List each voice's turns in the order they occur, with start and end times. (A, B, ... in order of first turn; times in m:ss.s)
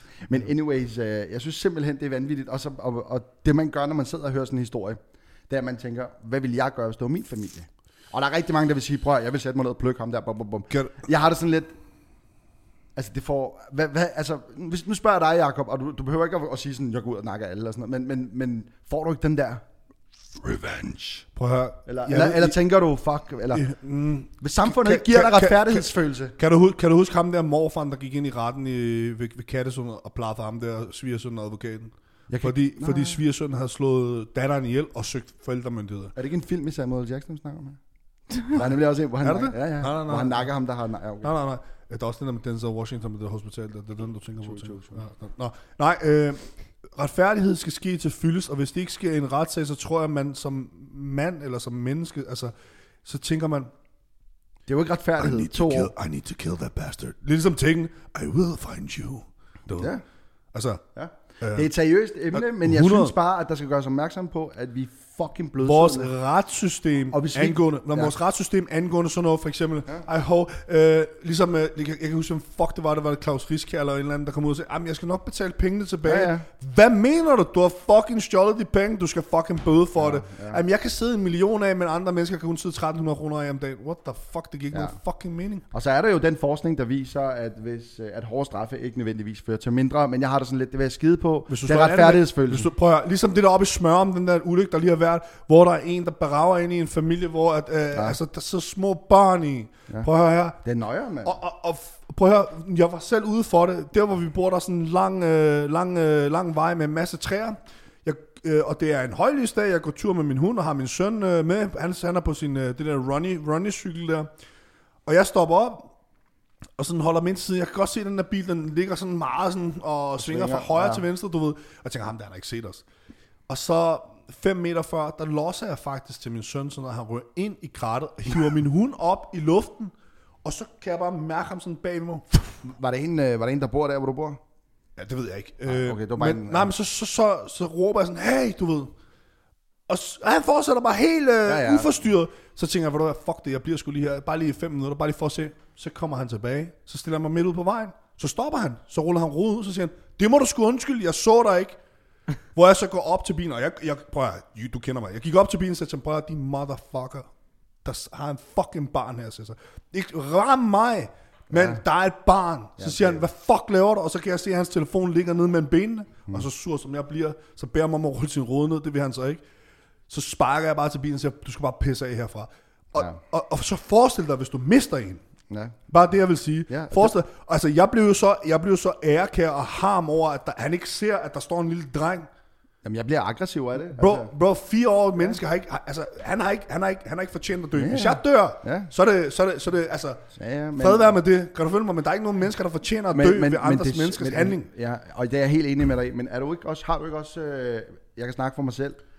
0:00.2-0:11.8 A
0:10.7-0:11.0 B
0:13.0-0:19.6 A
0:20.4-0:21.2 A
0:21.4-0:22.6 B
0:21.9-0:23.7 A
0:23.5-0:36.1 B
0:24.4-0:26.4 A
0:32.3-0:33.2 A
0:36.2-0:37.8 A
0:38.4-0:41.3 A
0:38.6-0:40.5 B
0:41.2-0:52.5 B
0:44.4-0:45.0 A
0:53.0-0:53.7 B
0:54.7-0:55.9 A
0:55.2-0:59.9 B
0:59.8-1:00.0 A
1:00.5-1:00.8 B
1:01.0-1:06.1 A
1:01.4-1:01.7 B
1:02.3-1:03.2 B
1:05.6-1:25.6 B
1:07.1-1:08.1 A
1:16.0-1:16.5 A
1:20.0-1:20.6 A
1:25.7-1:32.7 A
1:31.5-1:40.6 B
1:37.9-1:38.2 A
1:40.6-1:41.4 A
1:41.2-1:54.3 B
1:55.1-1:55.9 B
1:56.8-2:02.8 B
2:00.2-2:01.0 A
2:03.5-2:12.6 B
2:12.6-2:14.4 A
2:15.0-2:18.9 B
2:15.7-2:16.7 A
2:19.9-2:31.8 B
2:21.4-2:22.0 A
2:32.6-2:37.3 B
2:37.8-2:49.4 B
2:41.5-2:41.8 A
2:42.8-2:43.2 A
2:50.1-2:55.2 B
2:55.5-2:55.8 A
2:55.9-3:02.3 B
2:56.7-2:57.2 A
3:02.8-3:04.3 A
3:03.9-3:14.7 B
3:07.8-3:08.9 A
3:10.4-3:11.2 A
3:13.1-3:19.0 A